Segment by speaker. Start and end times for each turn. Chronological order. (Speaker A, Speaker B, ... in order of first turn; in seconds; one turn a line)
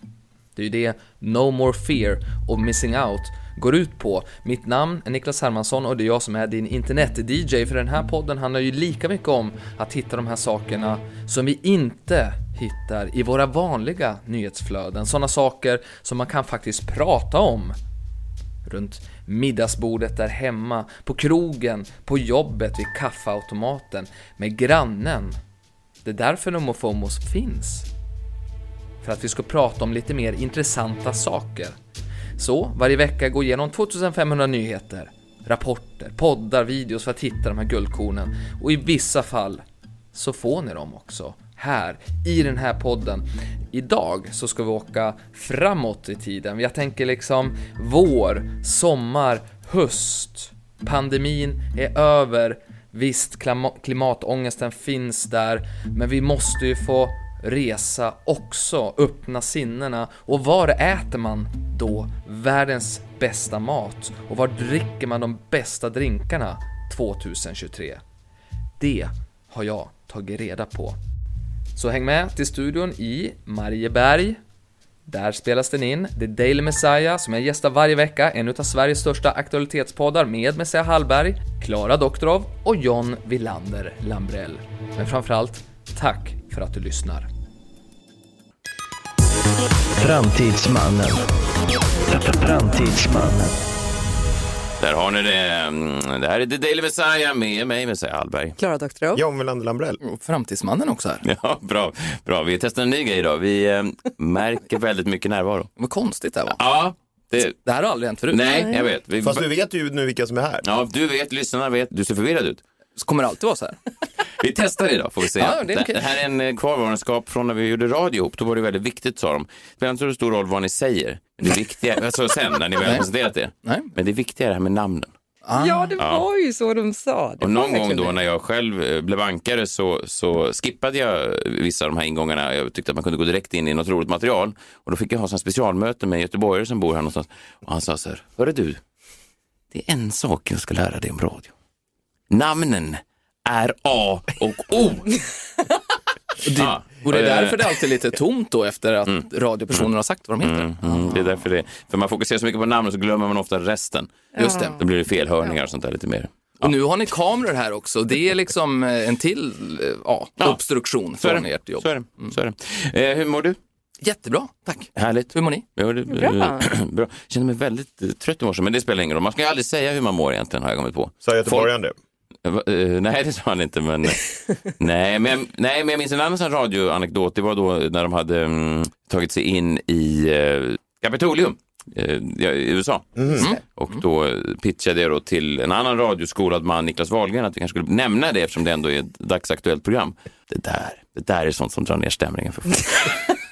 Speaker A: 0.6-17.8
Speaker A: 18.6-25.4
Speaker A: 26.0-27.9
Speaker A: 29.0-31.8
Speaker A: 32.4-39.6
Speaker A: 40.1-68.0
Speaker A: 68.8-71.0
Speaker A: 71.8-74.4
Speaker A: 75.1-87.3
Speaker B: 90.0-91.3
Speaker B: 92.1-93.6
Speaker C: 94.8-98.6
Speaker D: 98.6-99.2
Speaker E: 99.1-100.0
Speaker A: 100.0-101.2
Speaker C: 101.2-105.7
Speaker A: 105.8-106.6
Speaker C: 106.6-107.5
Speaker A: 107.6-108.8
Speaker C: 108.3-109.5
Speaker E: 109.2-110.7
Speaker C: 110.6-112.6
Speaker A: 113.0-113.8
Speaker C: 114.4-125.1
Speaker A: 115.3-116.2
Speaker A: 122.8-123.1
Speaker A: 123.6-123.9
Speaker A: 125.4-125.9
Speaker D: 125.5-128.2
Speaker C: 126.0-126.2
Speaker C: 127.4-138.8
Speaker C: 139.7-141.5
Speaker C: 142.3-145.2
Speaker A: 146.4-151.4
Speaker C: 146.5-147.8
Speaker C: 150.4-156.7
Speaker A: 154.3-154.8
Speaker D: 154.4-154.7
Speaker A: 156.6-162.3
Speaker C: 161.1-163.6
Speaker A: 164.0-165.7
Speaker C: 165.0-171.7
Speaker D: 166.1-166.7
Speaker E: 171.2-171.9
Speaker C: 172.4-193.3
Speaker E: 183.2-183.6
Speaker A: 183.4-184.0